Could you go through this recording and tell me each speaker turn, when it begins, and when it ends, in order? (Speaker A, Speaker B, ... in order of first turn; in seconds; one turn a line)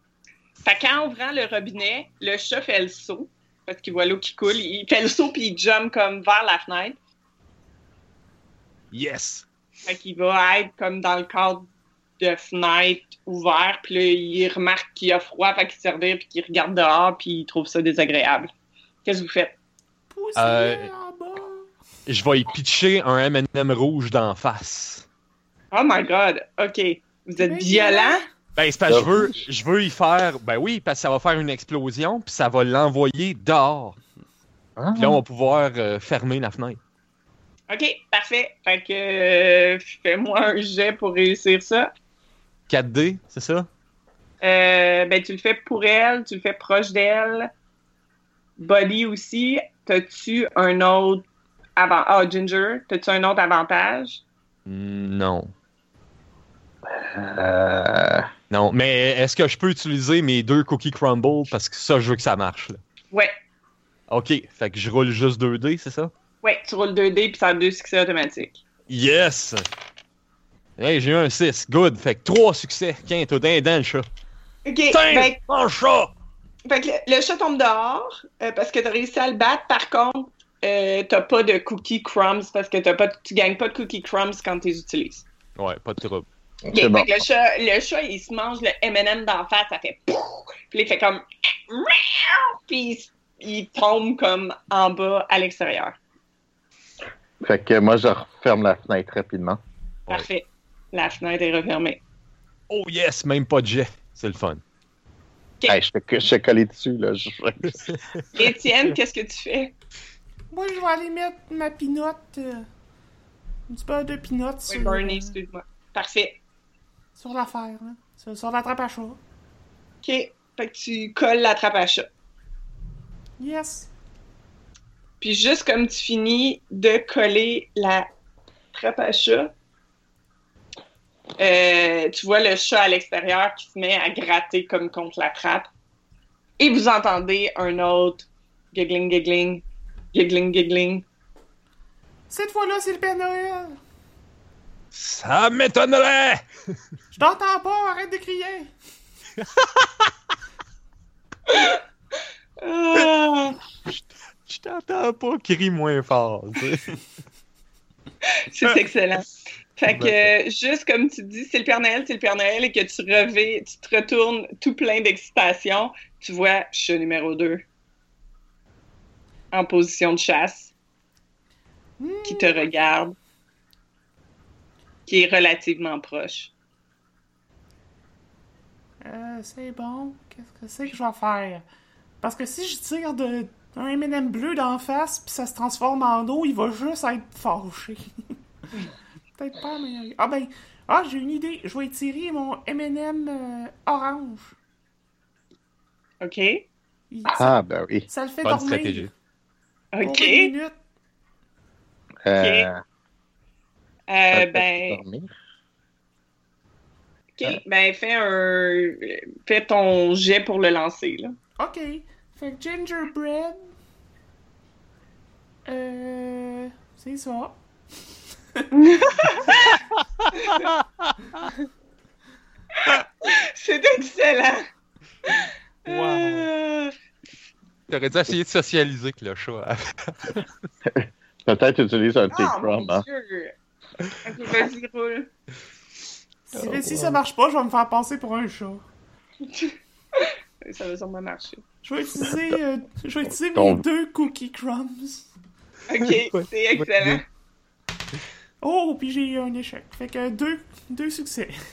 Speaker A: 0.6-7.0
Speaker B: 8.9-9.4
Speaker A: 9.9-11.7
Speaker A: 12.2-18.5
Speaker A: 19.1-19.6
Speaker C: 20.1-21.7
Speaker D: 20.4-20.9
Speaker D: 22.1-25.1
Speaker A: 25.7-28.2
Speaker C: 27.4-28.2
Speaker D: 28.6-34.0
Speaker E: 28.9-29.4
Speaker E: 34.8-35.2
Speaker D: 35.0-36.8
Speaker A: 37.7-41.9
Speaker D: 42.7-43.7
Speaker A: 44.4-47.5
Speaker A: 48.6-51.3
Speaker A: 51.8-54.2
Speaker D: 54.7-55.5
Speaker E: 56.9-58.3
Speaker D: 58.5-62.8
Speaker D: 64.1-66.1
Speaker A: 66.4-68.6
Speaker D: 68.9-69.6
Speaker D: 70.8-74.1
Speaker A: 74.7-75.4
Speaker B: 74.9-76.1
Speaker A: 76.7-85.2
Speaker D: 85.6-86.3
Speaker E: 86.7-87.1
Speaker A: 86.7-96.0
Speaker E: 97.4-99.6
Speaker A: 100.1-102.0
Speaker D: 102.7-104.6
Speaker E: 105.7-107.9
Speaker A: 108.3-109.7
Speaker C: 110.5-112.7
Speaker C: 113.7-115.3
Speaker A: 114.7-116.4
Speaker C: 117.2-119.2
Speaker A: 120.0-122.1
Speaker C: 123.4-123.9
Speaker A: 125.2-128.1
Speaker A: 128.7-129.5
Speaker A: 131.4-135.7
Speaker A: 136.6-141.1
Speaker C: 142.3-143.8
Speaker B: 144.9-146.4
Speaker C: 147.1-148.7
Speaker A: 151.5-151.8
Speaker A: 152.6-153.6
Speaker D: 154.0-156.9
Speaker A: 158.5-167.7
Speaker D: 159.9-160.3
Speaker A: 169.5-170.7
Speaker C: 172.0-172.6
Speaker A: 172.3-173.2
Speaker A: 175.1-176.5
Speaker C: 179.0-181.6
Speaker C: 182.2-188.1
Speaker C: 189.4-194.5
Speaker A: 196.2-196.7
Speaker C: 197.1-197.5
Speaker E: 197.3-198.1
Speaker C: 198.1-199.1
Speaker D: 198.4-199.1
Speaker A: 199.9-200.5
Speaker C: 200.0-200.8
Speaker E: 202.2-202.8
Speaker A: 202.3-202.7
Speaker A: 204.1-205.0
Speaker E: 204.3-205.3
Speaker A: 207.4-211.3
Speaker C: 211.6-213.7
Speaker C: 215.7-217.6
Speaker A: 218.7-219.8
Speaker A: 220.4-220.7
Speaker A: 222.8-224.7
Speaker A: 225.3-226.9
Speaker D: 225.9-226.4
Speaker D: 227.9-230.4
Speaker E: 230.9-233.1
Speaker A: 232.3-233.5
Speaker A: 234.2-235.3
Speaker C: 236.5-238.8
Speaker E: 236.6-237.2
Speaker A: 239.5-241.6
Speaker C: 241.8-245.3
Speaker E: 243.5-243.8
Speaker A: 245.9-247.2
Speaker C: 248.6-251.6